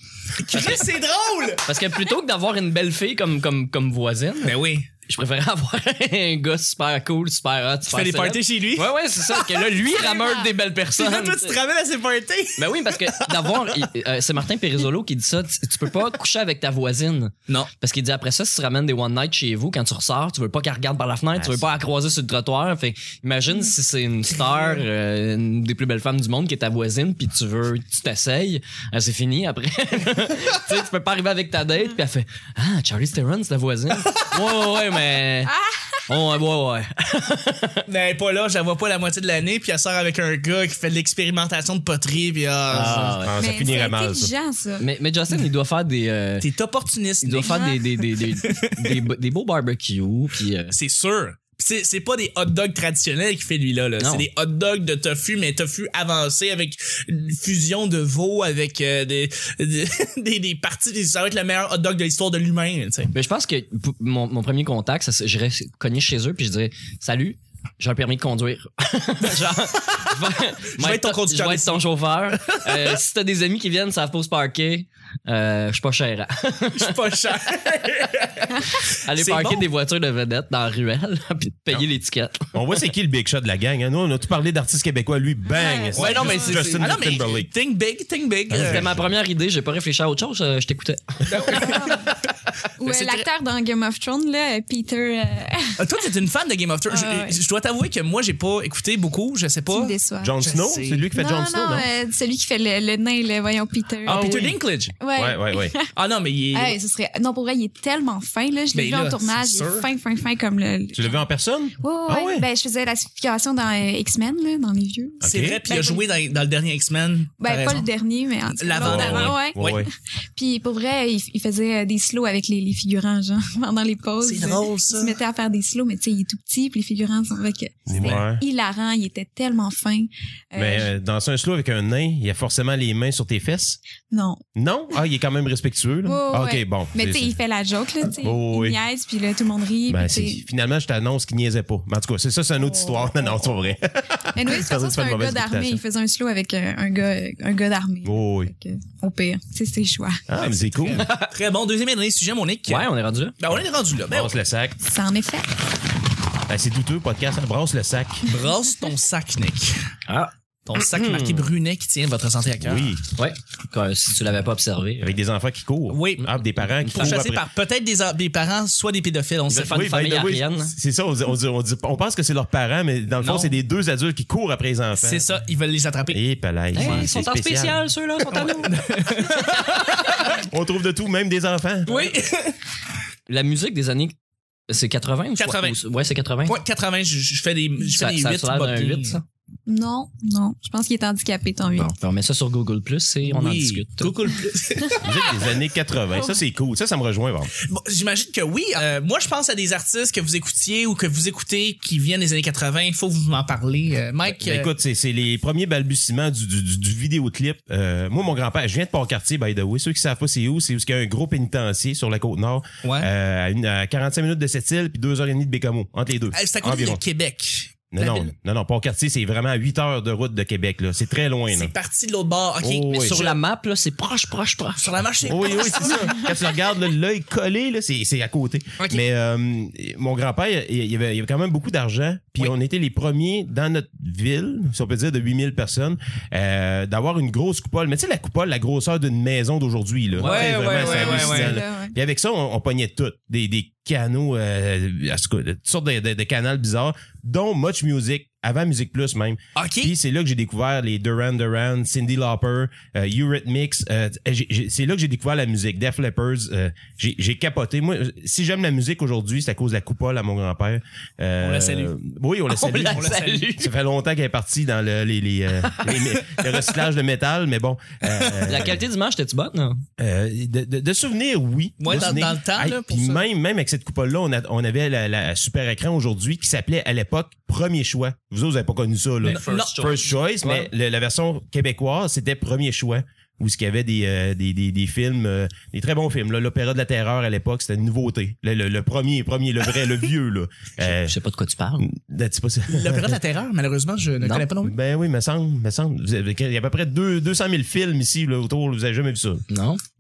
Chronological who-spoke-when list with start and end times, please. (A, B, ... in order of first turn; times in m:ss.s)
0:00.4-0:01.6 A
0:00.5-0:00.8 B
0:01.6-0:04.6 B
0:04.4-0:04.9 A
0:05.1-0:11.6 B
0:07.9-0:13.8 A
0:12.6-0:35.5 B
0:21.4-0:21.6 C
0:35.5-0:36.0 D
0:36.1-0:37.8 B
0:37.9-0:43.2 A
0:42.7-0:43.4 B
0:43.2-0:44.3 C
0:43.4-0:44.9 D
0:44.8-0:46.5 B
0:46.4-0:47.8 A
0:47.2-0:50.8 B
0:47.4-0:47.8 D
0:48.4-0:49.0 A
0:50.7-1:03.1 A
0:54.0-0:54.3 B
1:03.1-1:16.9 B
1:09.8-1:10.1 A
1:10.8-1:11.9 A
1:12.4-1:13.0 A
1:16.7-1:19.7 A
1:18.9-1:22.5 B
1:22.5-1:27.5 C
1:25.5-1:26.8 D
1:25.9-1:28.9 A
1:28.5-1:29.1 C
1:28.6-1:31.8 B
1:31.3-1:32.1 A
1:31.5-1:32.1 D
1:32.8-1:35.8 D
1:32.8-1:33.3 A
1:35.8-1:41.1 A
1:36.9-1:37.4 D
1:39.7-1:40.4 D
1:40.2-1:41.9 C
1:41.1-1:45.9 D
1:44.0-1:44.9 A
1:44.1-1:44.6 C
1:45.1-1:45.8 C
1:46.0-1:46.8 A
1:46.5-1:51.2 D
1:48.7-1:49.9 A
1:50.9-1:52.5 C
1:51.8-1:56.1 D
1:55.2-1:55.6 C
1:55.2-1:57.9 A
1:57.4-2:10.9 D
1:58.6-1:59.8 A
1:58.8-1:59.9 C
2:04.2-2:05.2 A
2:07.9-2:08.4 C
2:07.9-2:08.2 A
2:10.6-2:13.8 C
2:14.1-2:14.4 D
2:14.6-2:17.3 C
2:16.0-2:20.4 D
2:18.2-2:18.8 C
2:19.9-2:25.8 C
2:22.6-2:23.5 D
2:24.3-2:30.2 D
2:28.0-2:28.5 C
2:30.3-2:31.1 C
2:30.4-2:32.9 A
2:31.0-2:31.3 B
2:32.7-2:33.4 B
2:33.4-2:34.4 A
2:34.1-2:34.8 C
2:34.8-2:35.6 D
2:36.5-2:38.3 C
2:38.3-2:39.8 A
2:40.1-2:41.5 B
2:40.7-2:43.0 A
2:42.6-2:43.0 C
2:43.2-2:45.2 B
2:45.0-2:47.4 C
2:45.9-2:46.3 A
2:46.8-2:47.2 B
2:46.9-2:49.9 A
2:49.5-2:50.7 B
2:49.7-2:55.2 C
2:53.2-2:53.5 A
2:55.0-2:56.2 A
2:56.1-2:57.8 C
2:56.7-2:59.9 B
2:56.8-2:57.1 A
2:58.3-3:00.3 A
3:00.3-3:02.1 C
3:01.9-3:02.6 A
3:03.3-3:04.2 B
3:04.7-3:06.6 B
3:05.4-3:05.8 A
3:06.5-3:09.2 A
3:07.9-3:09.2 B
3:09.7-3:11.9 D
3:11.7-3:14.2 B
3:13.2-3:15.4 A
3:15.0-3:17.5 C
3:17.6-3:24.7 A
3:24.3-3:37.0 C
3:32.8-3:33.1 A
3:36.3-3:38.3 A
3:37.9-3:41.7 C
3:41.5-3:43.4 A
3:42.6-3:43.2 C
3:43.0-3:44.9 B
3:44.8-3:46.3 A
3:45.2-4:28.8 C
3:48.8-3:49.0 A
4:00.2-4:00.7 B
4:00.2-4:01.6 A
4:00.6-4:01.9 D
4:09.6-4:09.9 A
4:21.4-4:21.9 A
4:22.5-4:23.7 B
4:22.6-4:23.5 A
4:25.6-4:25.9 B
4:28.1-4:28.5 A
4:28.4-4:29.8 B
4:30.0-4:51.2 C
4:31.8-4:33.2 A
4:39.2-4:40.7 B
4:39.2-4:39.9 A
4:50.8-4:51.9 B
4:51.8-4:53.2 C
4:52.7-4:54.8 A
4:54.2-4:54.5 B
4:54.6-4:59.4 C
4:59.5-4:59.8 B